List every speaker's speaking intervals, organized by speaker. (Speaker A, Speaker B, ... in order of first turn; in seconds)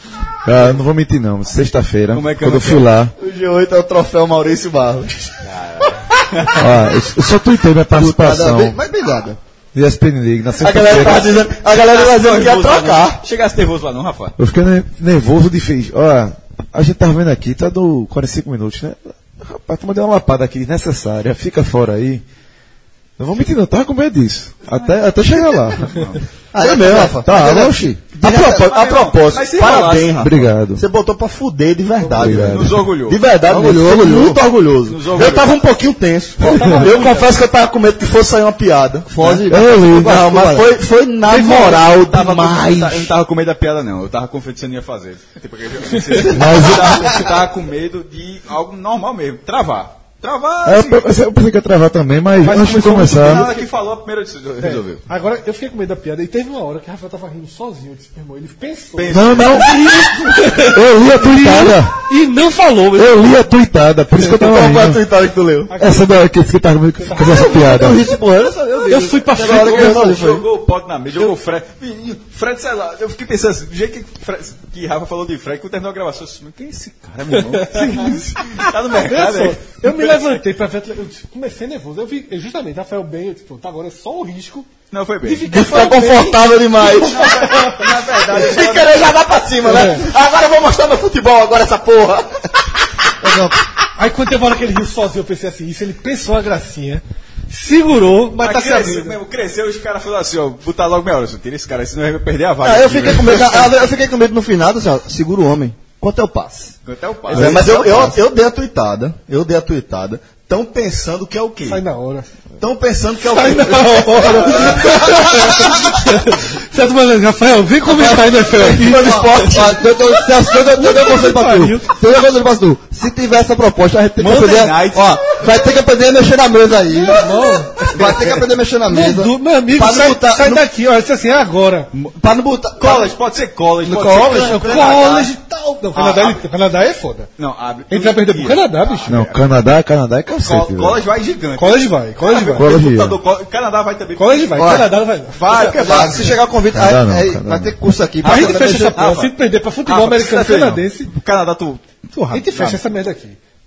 Speaker A: 0.4-3.1, 6.5-8.8, 9.7-11.3, 14.4-22.2, 23.2-26.0, 30.2-30.8, 32.1-32.8, 39.5-40.2, 46.2-47.1, 50.6-53.5, 59.1-62.0, 62.9-65.0, 65.8-68.0, 139.1-141.0, 142.5-143.2, 146.7-147.7
Speaker B: 2.1-2.9, 5.4-6.7, 10.9-14.3, 24.7-26.2, 28.2-30.3, 32.3-33.2, 34.9-35.6, 36.4-37.3, 41.3-51.1, 52.5-55.0, 59.0-59.8, 69.3-80.2, 84.9-85.5, 86.8-89.1, 98.4-103.7, 106.8-108.1, 124.2-125.5, 132.8-135.0, 135.9-136.4, 137.4-139.4, 140.4-146.4, 148.2-149.3, 149.8-152.8
Speaker C: 3.2-6.5, 10.6-13.2, 26.6-43.1, 64.2-65.7, 85.4-92.5, 107.3-111.8, 112.6-115.8, 118.5-120.0
Speaker D: 7.9-9.4, 26.5-28.5, 33.5-34.4, 39.1-40.7, 67.2-70.5, 93.2-93.6, 102.6-106.7, 107.3-108.1, 118.0-130.7, 132.2-133.2, 133.8-135.3, 144.6-144.9, 145.5-149.0
Speaker E: 52.4-53.6, 54.6-63.4, 65.7-66.2, 67.0-67.9, 68.8-70.0, 77.4-84.7, 85.2-87.7, 89.6-90.0, 94.0-99.2, 111.7-112.3, 113.2-119.2, 120.7-121.9, 127.0-128.2, 128.9-131.9, 134.3-137.3, 137.9-139.2, 141.6-142.7, 144.2-146.2, 148.2-151.1, 152.1-153.4